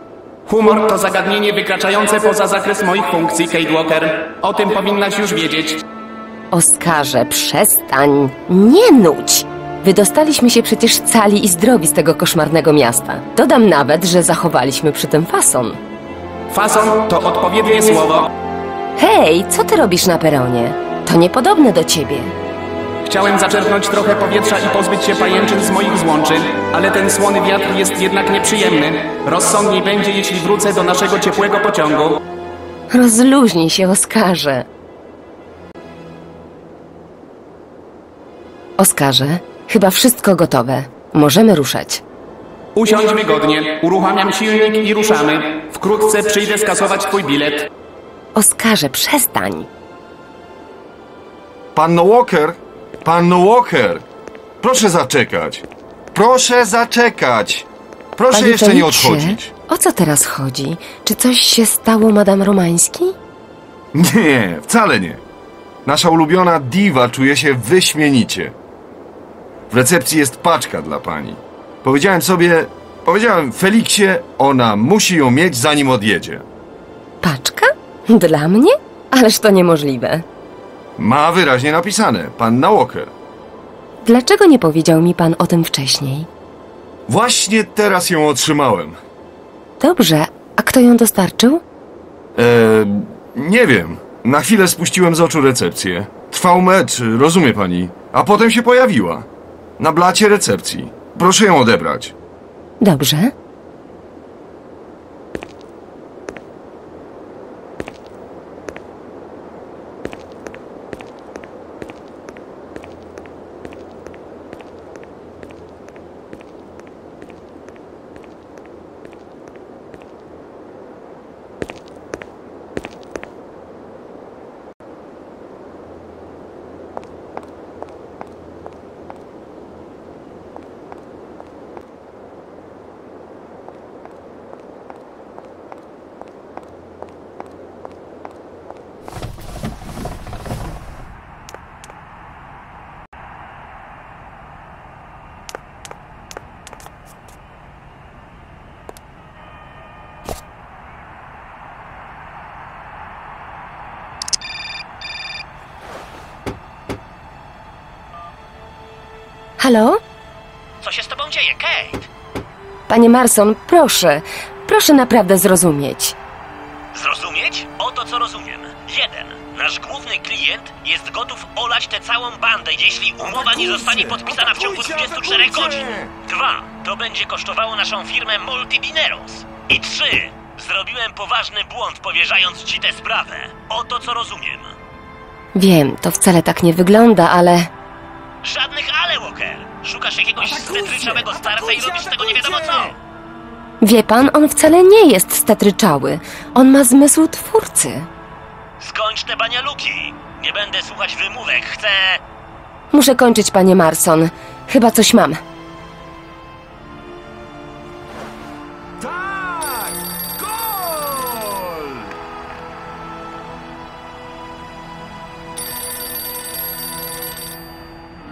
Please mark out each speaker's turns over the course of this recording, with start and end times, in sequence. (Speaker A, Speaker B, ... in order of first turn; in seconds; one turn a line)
Speaker A: 0.5-5.8
Speaker B: 6.5-15.8
Speaker A: 16.5-18.2
Speaker B: 19.0-22.3
Speaker A: 23.0-32.1
Speaker B: 32.9-34.7
Speaker B: 38.8-42.0
Speaker A: 42.8-47.7
Speaker B: 48.4-49.7
Speaker C: 51.7-54.0
Speaker C: 54.6-59.5
Speaker B: 58.3-63.1
Speaker C: 63.9-65.2
Speaker C: 65.8-68.5
Speaker C: 69.7-76.4
Speaker B: 77.2-80.2
Speaker C: 81.0-83.1
Speaker B: 84.0-86.3
Speaker C: 87.1-89.0
Speaker B: 89.8-91.6
Speaker C: 92.3-99.2
Speaker C: 99.8-102.1
Speaker B: 102.8-103.3
Speaker B: 159.6-160.0
Speaker D: 160.8-162.1
Speaker B: 162.9-166.2
Speaker D: 166.9-184.7
Speaker C: 173.2-176.1
Speaker B: 185.5-187.7
Speaker D: 188.4-193.0
Speaker C: 190.6-192.6
Speaker B: 193.8-198.1
Speaker D: 198.8-202.2
Speaker B: 202.9-205.4
Speaker C: 209.0-212.0